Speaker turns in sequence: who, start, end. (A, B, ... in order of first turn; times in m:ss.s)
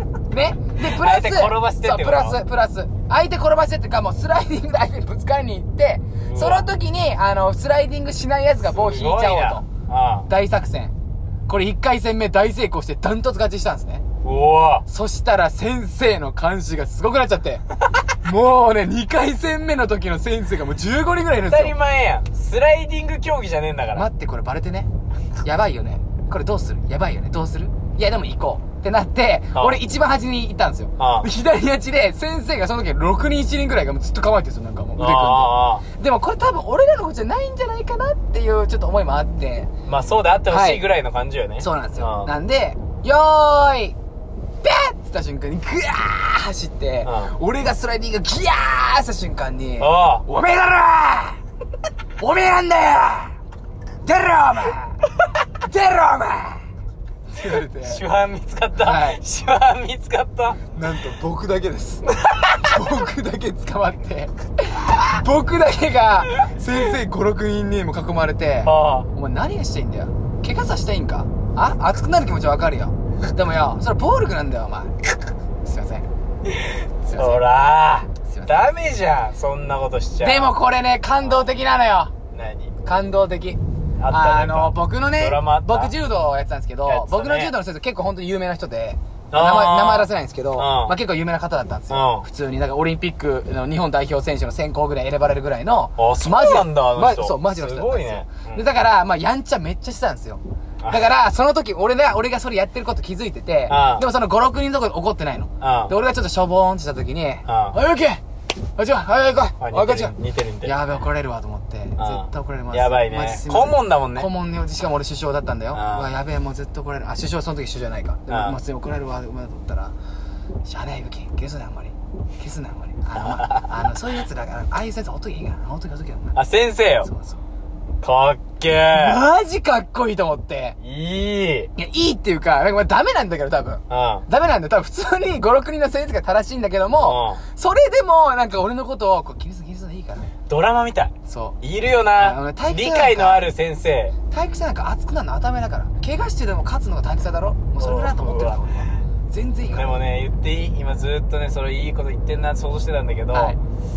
0:00.3-0:09.7 A
0:00.8-0:02.4 B
0:06.1-0:06.7 B
0:08.6-0:10.3 B
0:10.3-0:10.9 A
0:11.5-0:14.0 A
0:14.2-0:14.8 B
0:14.9-0:17.6 A
0:18.2-0:21.8 A
0:21.5-0:24.1 B
0:23.9-0:24.9 A
0:25.4-0:39.7 A
0:29.6-0:29.8 B
0:31.0-0:31.3 B
0:35.0-0:35.8 B
0:39.9-0:42.3 B
0:40.5-0:40.8 A
0:41.6-0:44.0 A
0:44.6-0:51.4 A
0:47.0-0:47.3 B
0:49.8-0:50.2 B
0:52.2-0:53.4 A
0:54.0-0:55.0 A
0:55.6-0:56.6 A
0:57.3-0:58.0 A
0:57.4-1:00.6 B
0:58.8-0:59.2 A
1:00.7-1:02.1 A
1:02.1-1:02.8 B
1:02.6-1:14.9 A
1:08.6-1:09.1 B
1:15.6-1:16.1 A
1:16.5-1:20.5 B
1:17.0-1:17.5 A
1:18.2-1:18.7 A
1:20.2-1:22.1 A
1:21.2-1:21.6 B
1:22.3-1:22.7 B
1:22.8-1:48.2 A
1:24.0-1:25.9 B
1:26.9-1:27.5 B
1:29.3-1:31.0 B
1:31.9-1:32.3 B
1:36.0-1:38.6 B
1:40.8-1:41.1 B
1:43.7-1:44.1 B
1:45.6-1:45.9 B
1:47.5-1:47.8 B
1:48.8-2:00.0 A
1:49.6-1:50.8 B
1:52.0-1:54.3 B
1:55.7-1:56.1 B
1:58.3-1:58.6 B
2:00.7-2:06.4 A
2:03.2-2:03.7 B
2:06.3-2:07.1 B
2:07.0-2:07.4 A
2:08.0-2:09.2 B
2:08.9-2:10.8 A
2:10.8-2:11.7 B
2:11.8-2:20.3 A
2:13.9-2:14.2 B
2:17.0-2:17.4 B
2:20.5-2:24.1 B
2:21.3-2:21.6 A
2:22.2-2:23.5 A
2:24.3-2:30.0 A
2:27.8-2:28.6 B
2:29.6-2:33.6 B
2:33.3-2:33.6 A